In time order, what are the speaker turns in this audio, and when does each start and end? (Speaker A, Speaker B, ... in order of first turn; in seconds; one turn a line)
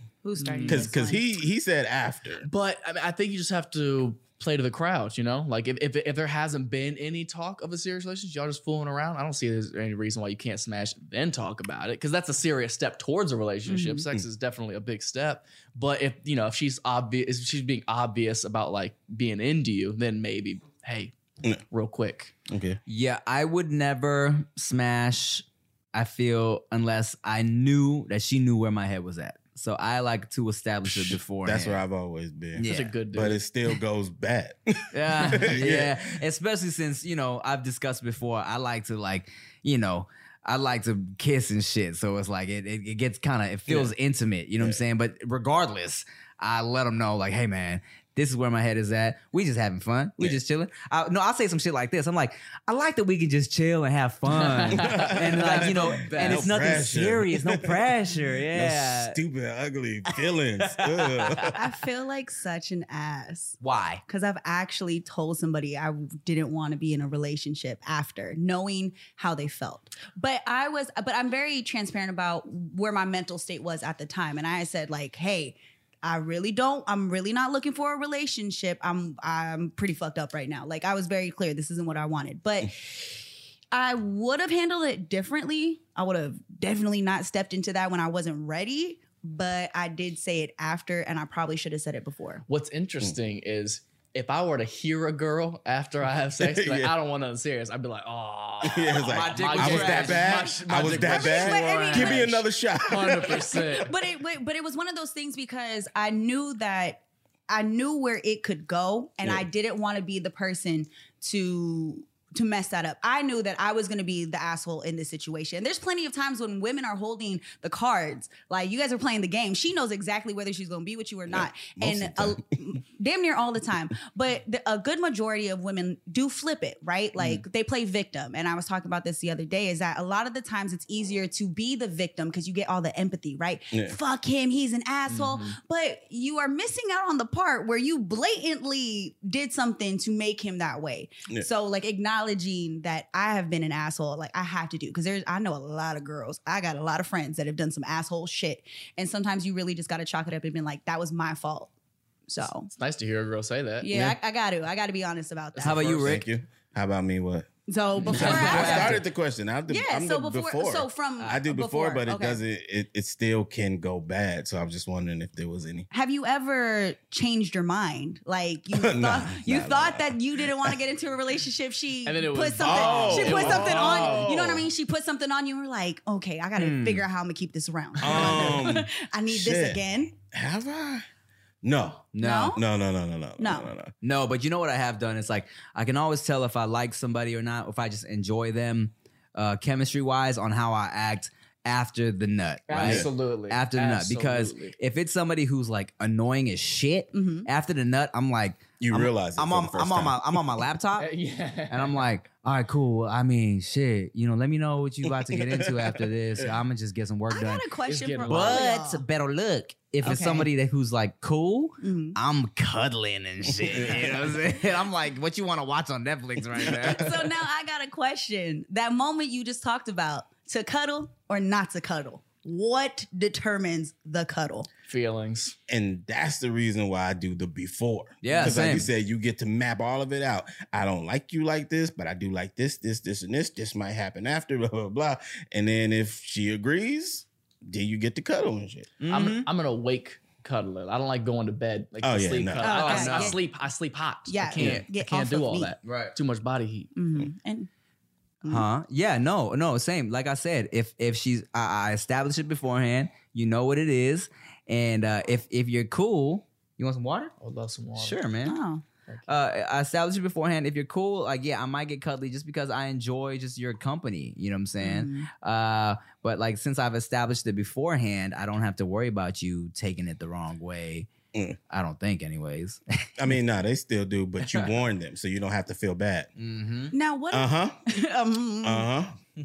Speaker A: 0.2-1.2
Speaker B: 0.4-0.9
Speaker C: 0.7-2.5
Speaker B: 2.5-21.1
Speaker A: 13.7-14.1
Speaker B: 21.7-22.4
Speaker C: 22.5-22.8
Speaker D: 22.9-31.8
Speaker C: 30.9-32.6
Speaker D: 32.5-33.0
Speaker B: 32.6-33.4
Speaker C: 33.1-36.0
Speaker D: 34.9-59.2
Speaker B: 35.2-35.5
Speaker B: 54.3-56.9
Speaker C: 54.7-57.8
Speaker C: 58.4-61.6
Speaker D: 60.6-61.6
Speaker A: 61.5-83.0
Speaker D: 63.6-64.0
Speaker A: 83.7-92.4
Speaker B: 92.5-103.9
Speaker C: 96.4-96.9
Speaker C: 98.6-103.8
Speaker D: 99.1-100.4
Speaker A: 100.8-102.4
Speaker A: 103.8-151.7
Speaker C: 121.3-122.4
Speaker C: 133.7-134.0
Speaker B: 135.1-135.6
Speaker A: 152.3-152.7
Speaker B: 152.7-153.9
Speaker A: 153.8-155.9
Speaker C: 153.9-154.2
Speaker B: 155.6-156.1
Speaker D: 155.6-156.3
Speaker C: 155.9-157.5
Speaker A: 157.7-159.0
Speaker C: 158.0-165.9
Speaker D: 158.1-159.0
Speaker A: 159.7-162.4
Speaker A: 165.9-180.1
Speaker C: 168.8-170.1
Speaker B: 172.1-174.3
Speaker C: 172.6-174.7
Speaker D: 176.6-177.1
Speaker C: 178.0-181.1
Speaker C: 181.6-183.9
Speaker D: 182.1-182.6
Speaker A: 182.2-182.6
Speaker A: 183.4-183.7
Speaker D: 184.0-201.1
Speaker B: 192.7-194.8
Speaker C: 192.7-193.1
Speaker A: 197.1-197.5
Speaker C: 198.8-200.4
Speaker B: 201.0-202.0
Speaker D: 201.7-207.7
Speaker C: 205.1-206.5
Speaker A: 207.3-209.0
Speaker B: 207.9-208.8
Speaker D: 208.3-217.3
Speaker A: 210.0-210.5
Speaker A: 211.8-212.2
Speaker C: 213.7-214.2
Speaker A: 216.7-224.7
Speaker B: 224.9-225.6
Speaker C: 225.7-238.9
Speaker D: 228.2-228.9
Speaker D: 239.0-239.5
Speaker B: 239.1-246.9
Speaker C: 242.0-243.3
Speaker A: 242.6-243.4
Speaker A: 244.3-245.7
Speaker D: 245.8-246.2
Speaker A: 247.0-247.7
Speaker D: 248.5-257.3
Speaker B: 257.4-258.2
Speaker D: 258.0-258.6
Speaker A: 258.4-258.8
Speaker D: 259.3-271.1
Speaker A: 264.8-265.3
Speaker D: 271.7-273.1
Speaker C: 273.2-276.3
Speaker D: 276.4-276.9
Speaker A: 276.9-278.9
Speaker C: 277.3-277.8
Speaker C: 278.6-279.2